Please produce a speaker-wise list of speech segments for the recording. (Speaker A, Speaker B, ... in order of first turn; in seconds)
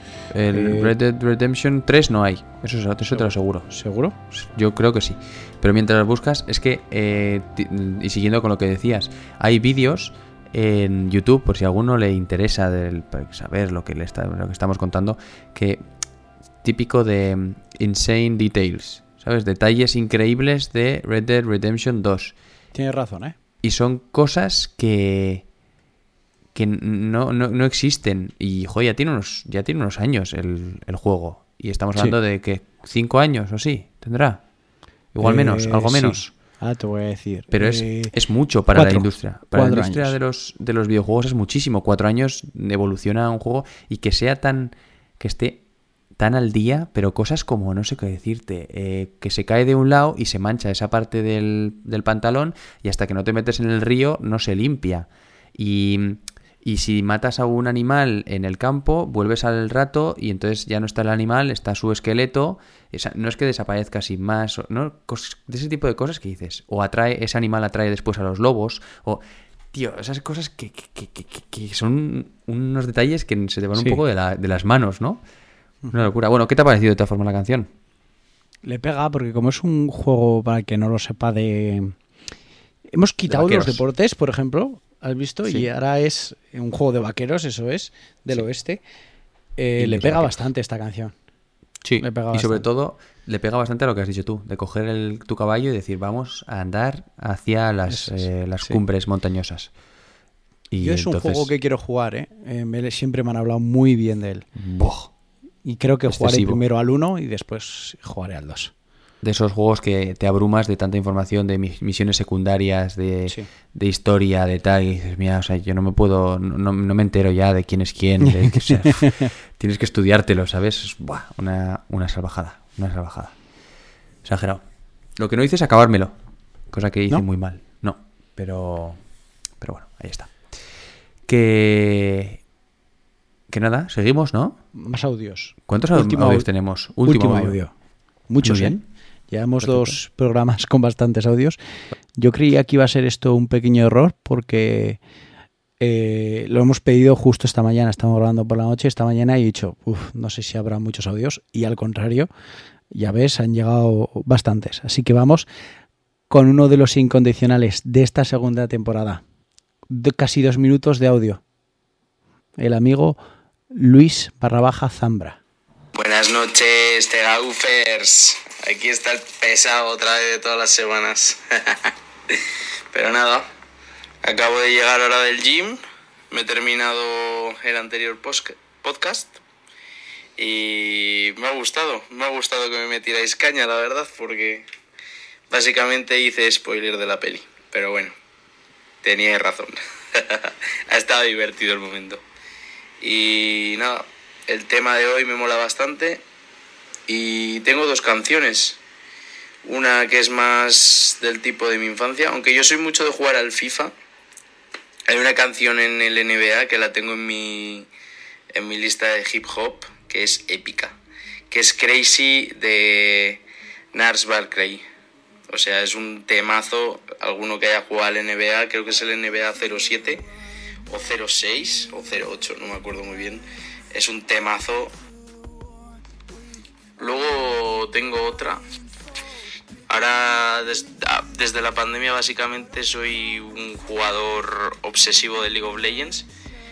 Speaker A: 0.3-3.7, 4.3-15.8, 16.6-22.3, 23.6-25.4, 26.5-34.4, 35.1-36.3, 37.5-45.6, 46.1-75.2, 75.9-77.7, 83.3-83.8, 89.8-90.4, 91.8-99.7, 100.7-101.5, 104.5-105.1, 106.1-106.6, 109.2-123.3, 124.2-124.6, 125.2-126.1, 126.7-129.0, 129.6-130.4, 131.2-132.4, 133.5-134.6, 135.7-137.6, 138.4-138.8, 139.6-140.0
Speaker B: 0.5-0.9, 3.1-4.2, 22.7-23.4, 35.2-38.1, 38.7-40.1, 78.6-82.0, 82.9-88.8, 89.6-91.1, 92.0-92.6, 97.9-98.8, 100.8-104.4, 105.6-108.7, 118.2-119.3, 134.7-136.5, 137.0-137.7, 138.3-141.6, 142.2-145.0, 145.8-152.3, 152.9-155.5, 156.3-159.2, 159.9-161.4, 162.6-163.2, 163.7-165.4
Speaker C: 165.9-172.4, 172.9-173.5, 174.2-175.8, 176.3-179.4, 180.4-184.7, 185.5-188.1, 189.0-192.2, 193.0-196.2, 197.1-198.8, 199.6-203.9, 205.1-207.9, 208.5-210.9, 211.5-213.4, 213.9-214.8, 215.5-220.2, 220.9-224.9, 227.0-228.6, 229.9-236.2